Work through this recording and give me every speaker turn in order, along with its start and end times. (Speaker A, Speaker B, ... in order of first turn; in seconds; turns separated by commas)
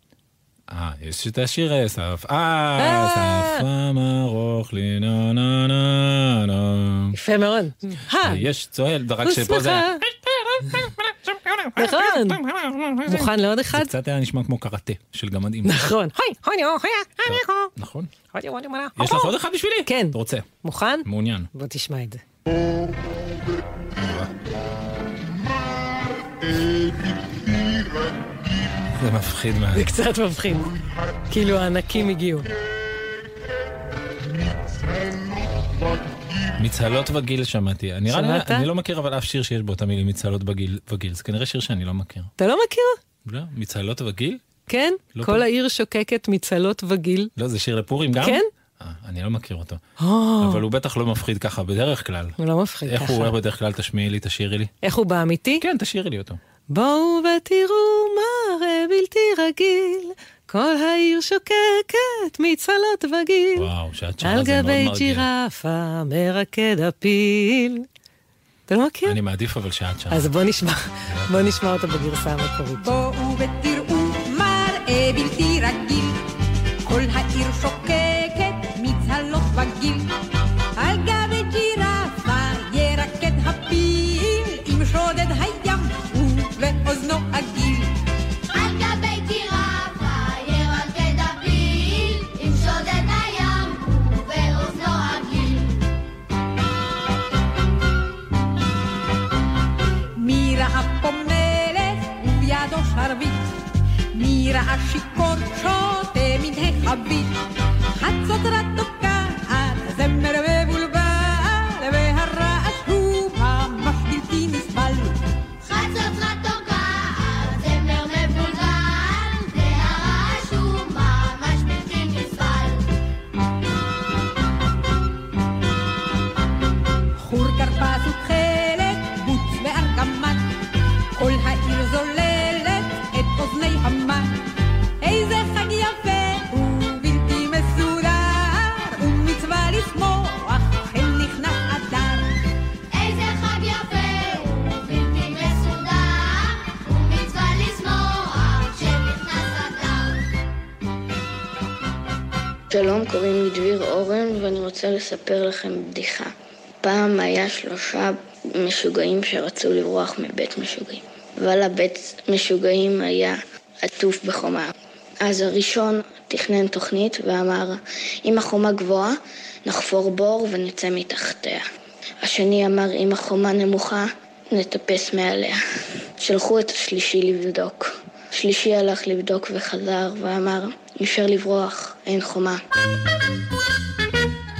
Speaker A: 0.7-7.2, Speaker B: 2.8-3.6, Speaker B: 7.1-8.4, Speaker A: 8.1-15.9, Speaker B: 9.2-10.0, Speaker B: 11.8-12.4, Speaker B: 13.0-13.9, Speaker B: 15.6-17.7, Speaker A: 17.2-18.1, Speaker B: 18.3-19.3, Speaker A: 18.9-20.5, Speaker B: 19.9-22.2, Speaker A: 21.0-21.5, Speaker A: 24.0-24.3, Speaker A: 28.9-29.9, Speaker B: 29.7-30.7, Speaker B: 31.3-32.5, Speaker A: 36.6-42.3, Speaker B: 38.1-38.7, Speaker B: 42.4-43.0, Speaker A: 43.2-44.4, Speaker B: 44.7-47.3, Speaker A: 45.1-45.5, Speaker A: 47.4-49.8, Speaker B: 48.2-48.5, Speaker B: 50.0-50.6, Speaker A: 50.4-52.4, Speaker B: 52.4-53.3, Speaker A: 52.9-54.7, Speaker B: 54.8-55.6, Speaker A: 55.6-56.4, Speaker B: 56.7-63.7, Speaker A: 63.5-65.3, Speaker B: 64.2-67.8, Speaker B: 68.7-69.2, Speaker A: 69.0-70.3, Speaker B: 70.1-72.9, Speaker A: 71.1-71.5, Speaker C: 72.8-76.2, Speaker C: 76.8-80.1, Speaker C: 80.8-88.0, Speaker D: 88.5-95.8, Speaker C: 100.1-103.5, Speaker C: 104.1-115.2, Speaker D: 115.6-122.8, Speaker C: 127.2-130.5, Speaker C: 131.2-134.4, Speaker C: 135.0-142.3, Speaker D: 142.9-150.2, Speaker E: 152.7-156.3, Speaker E: 156.8-164.7, Speaker E: 165.2-171.6, Speaker E: 172.2-175.6, Speaker E: 176.2-182.6